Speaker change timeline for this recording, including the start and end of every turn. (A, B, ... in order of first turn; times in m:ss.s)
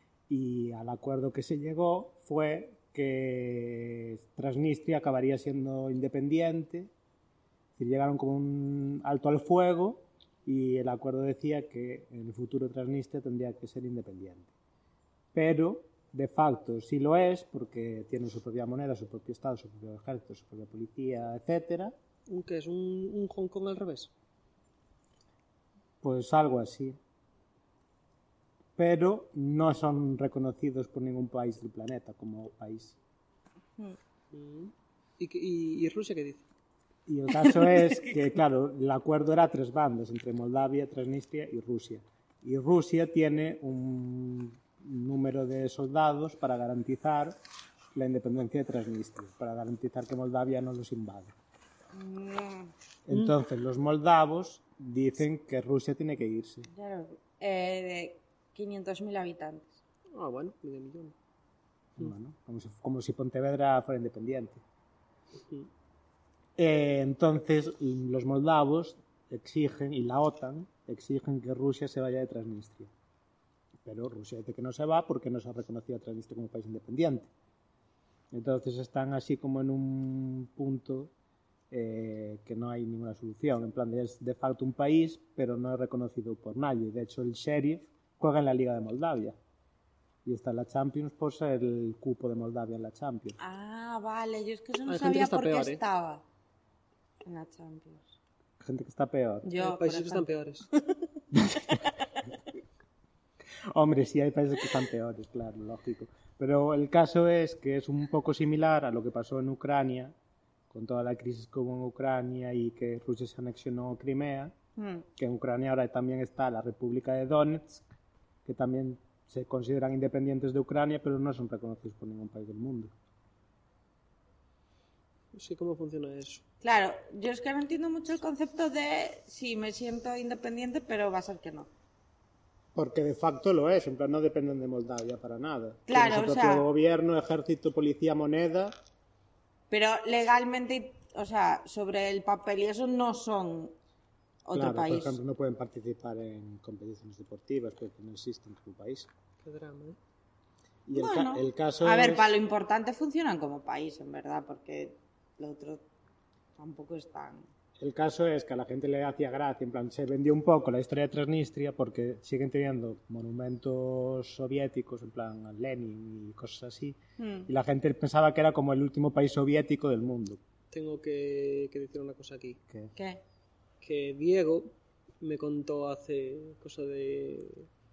0:00.3-0:06.9 A
0:07.8-0:14.5 A
0:15.3-0:21.9 A
0:22.3-0:24.1 B
0:26.0-0:27.0 A
0:28.8-0:33.0 A
0:34.3-0:36.4 B
0:37.1-0:47.4 A
0:48.0-0:51.3 A
0:51.9-0:52.7 C
0:53.1-0:56.7 A
0:56.7-0:59.8 C
1:00.1-1:01.1 B
1:02.0-1:04.6 A
1:06.6-1:12.9 A
1:13.8-1:17.3 A
1:18.3-1:21.1 A
1:21.7-1:29.4 A
1:30.2-1:33.4 A
1:33.4-1:36.2 C
1:34.9-1:35.8 B
1:37.2-1:38.2 C
1:38.6-1:39.5 A
1:39.4-1:40.2 C
1:39.6-1:40.7 B
1:41.3-1:41.8 A
1:43.7-1:50.2 A
1:50.7-1:54.5 A
1:54.8-1:55.0 C
1:55.2-1:57.8 A
1:58.4-2:02.9 A
2:05.3-2:06.4 B
2:06.6-2:11.7 C
2:12.8-2:18.8 A
2:15.9-2:16.7 C
2:19.7-2:23.7 C
2:24.4-2:25.2 C
2:24.5-2:29.1 A
2:29.4-2:30.0 B
2:30.9-2:32.4 A
2:31.0-2:35.8 C
2:36.6-2:37.5 C
2:37.8-2:50.4 A
2:47.2-2:47.5 C
2:50.7-2:52.6 B
2:53.0-2:53.2 C
2:53.8-2:54.7 B
2:55.2-2:57.7 B